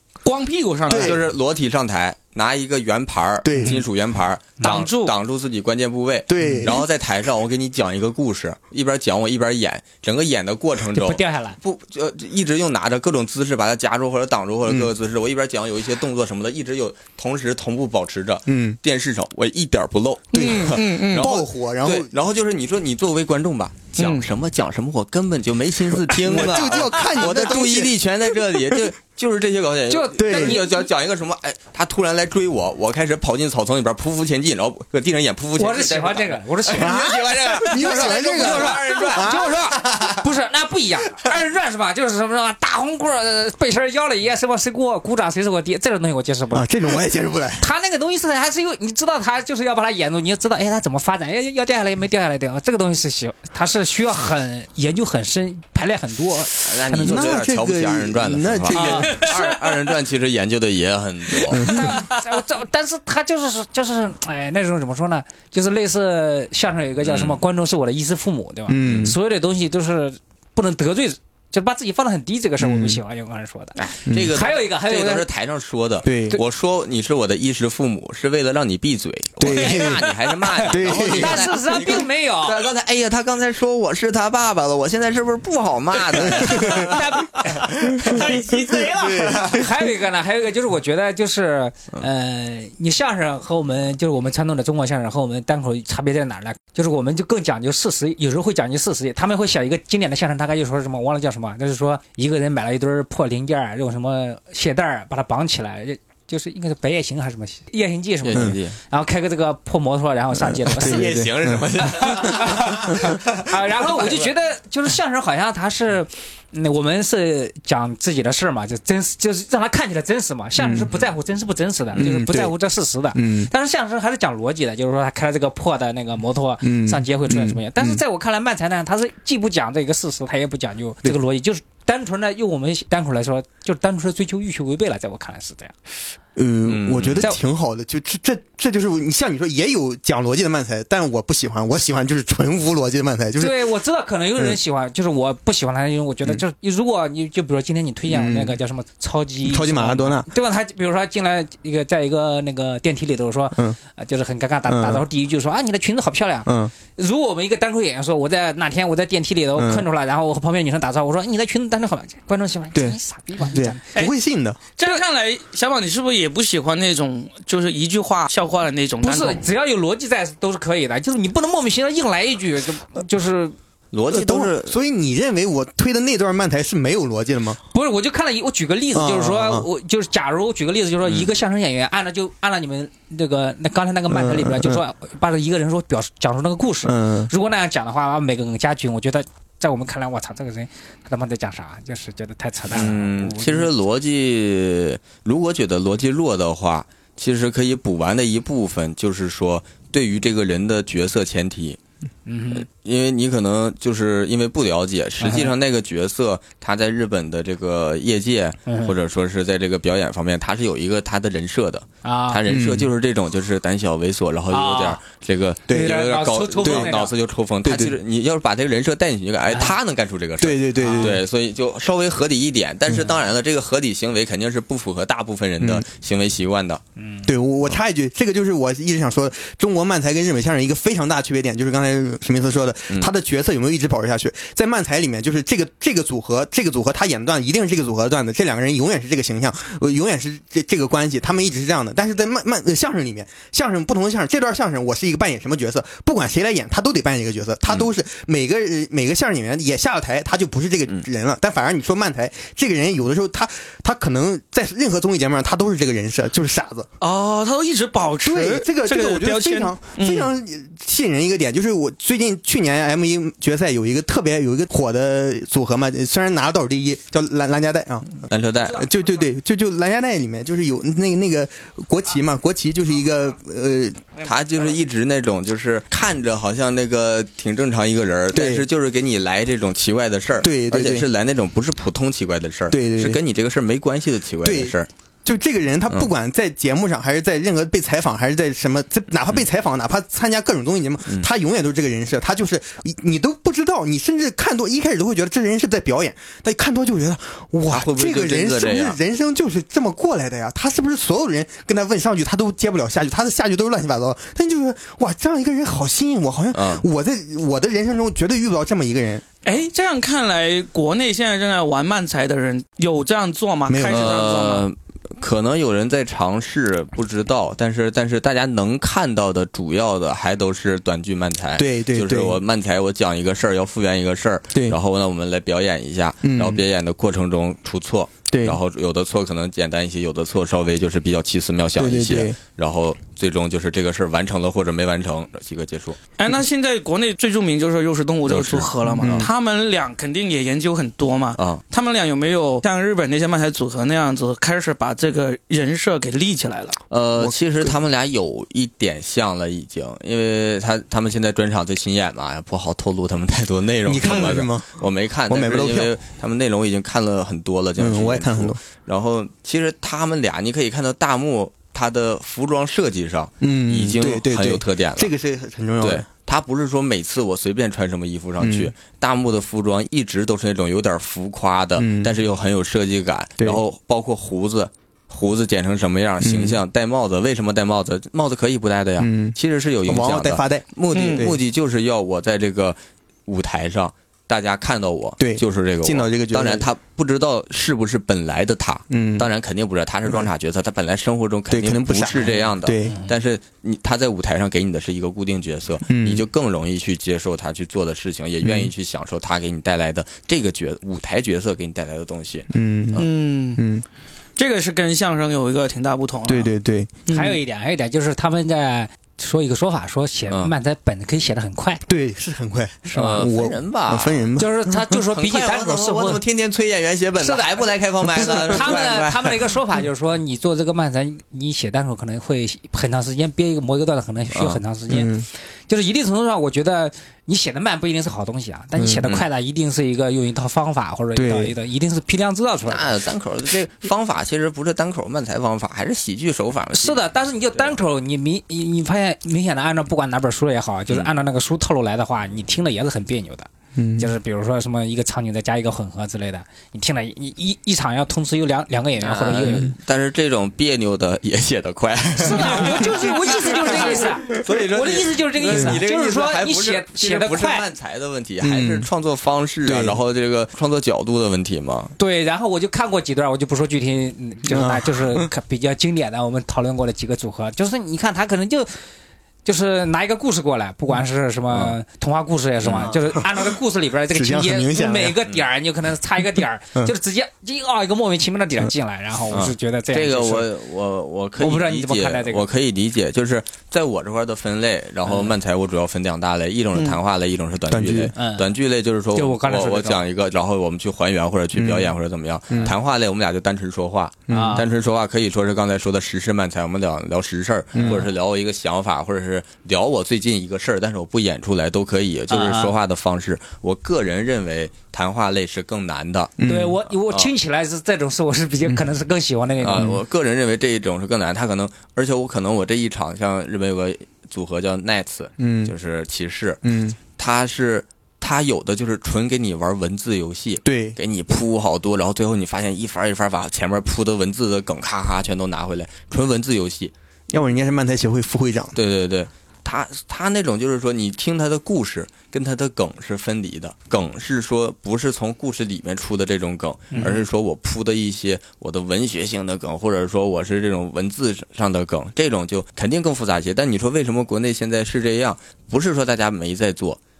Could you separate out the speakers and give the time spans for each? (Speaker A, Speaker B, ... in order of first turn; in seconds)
Speaker A: 0.2-1.1, 4.6-5.1, 20.3-21.3, 24.0-24.3, 58.7-59.6, 87.9-89.5, 164.8-169.4, 257.0-260.3, 309.4-314.6, 336.2-346.8, 380.9-381.2, 402.9-403.6, 404.4-406.5, 407.1-407.4
Speaker B: 0.9-1.2, 3.4-3.8, 6.3-6.8, 18.5-18.8, 20.3-22.1, 25.9-28.8, 30.1-30.6, 36.7-40.1, 46.5-47.7, 57.0-59.1, 61.5-61.9, 68.7-69.2, 72.6-73.0, 74.1-74.3, 76.0-76.4, 79.4-80.1, 80.6-81.5, 86.2-86.9, 88.9-89.7, 110.4-111.7, 112.9-113.2, 120.6-121.0, 122.0-122.5, 123.1-123.5, 126.6-128.0, 136.3-143.7, 148.1-148.6, 149.4-150.3, 154.7-155.0, 156.4-156.7, 159.6-159.9, 162.7-164.6, 174.1-177.6, 178.9-179.7, 184.1-184.8, 186.8-187.3, 212.5-212.9, 215.7-216.0, 216.6-216.9, 217.6-218.0, 220.4-221.2, 225.6-225.8, 227.2-256.9, 258.2-274.1, 278.3-278.6, 280.4-281.1, 282.7-283.2, 284.4-284.7, 285.2-309.2, 313.7-314.5, 321.6-322.4, 326.2-326.6, 328.3-328.6, 331.8-332.4, 339.0-339.3, 347.2-347.7, 353.8-355.9, 357.8-358.6, 363.4-366.1, 368.4-368.7, 371.8-372.1, 376.2-376.6, 379.0-381.4, 385.2-386.6, 388.9-389.3, 391.5-393.0, 395.9-396.2, 398.4-398.7, 402.5-403.1, 403.6-403.8, 406.3-406.9, 411.9-415.0, 424.9-425.2, 428.8-429.0, 431.1-431.5, 443.8-444.1, 455.5-455.8, 458.4-458.9, 459.6-460.0, 464.5-465.3, 472.8-473.5, 474.1-475.2, 487.7-488.1, 491.5-491.9, 492.5-492.7, 494.3-494.6, 497.7-498.0, 506.4-506.8, 509.7-510.0, 515.4-515.7, 516.6-517.0, 520.6-521.0, 527.3-528.8
Speaker C: 0.9-40.0, 56.6-61.7, 67.0-67.4, 68.8-69.1, 73.8-88.0, 108.2-108.8, 110.7-114.3, 136.7-137.3, 173.9-174.8, 181.0-181.3, 192.7-201.8, 202.5-226.8, 268.3-268.9, 274.2-284.9, 297.7-299.0, 306.5-306.8, 313.9-336.0, 338.3-339.3, 341.4-341.6, 346.9-365.1, 365.8-403.0, 412.9-414.3, 415.1-419.5, 424.3-424.6, 432.6-437.0, 449.0-461.9, 472.6-472.9, 479.3-506.4, 506.9-507.3, 509.6-516.6, 517.2-526.9, 528.7-547.0
Speaker D: 4.6-4.9, 10.9-11.6, 29.9-30.9, 35.6-46.7, 47.6-57.4, 58.7-59.2, 61.6-75.2, 80.6-82.6, 86.4-87.9, 89.4-111.2, 111.8-135.7, 143.4-163.8, 169.0-173.5, 177.7-193.7, 202.2-202.7, 205.2-205.5, 208.7-208.9, 212.0-212.4, 214.5-215.0, 215.7-217.1, 219.5-219.7, 220.8-221.2, 227.0-227.3, 407.1-411.8, 414.4-416.2, 417.2-417.6, 418.1-425.1, 425.7-432.9, 436.7-449.7, 452.2-457.6, 462.0-468.7, 469.4-480.5, 481.4-482.4, 485.0-485.3, 488.1-488.5, 489.1-490.0, 494.3-494.6, 497.8-498.1, 502.3-502.7, 506.4-509.9, 536.9-537.2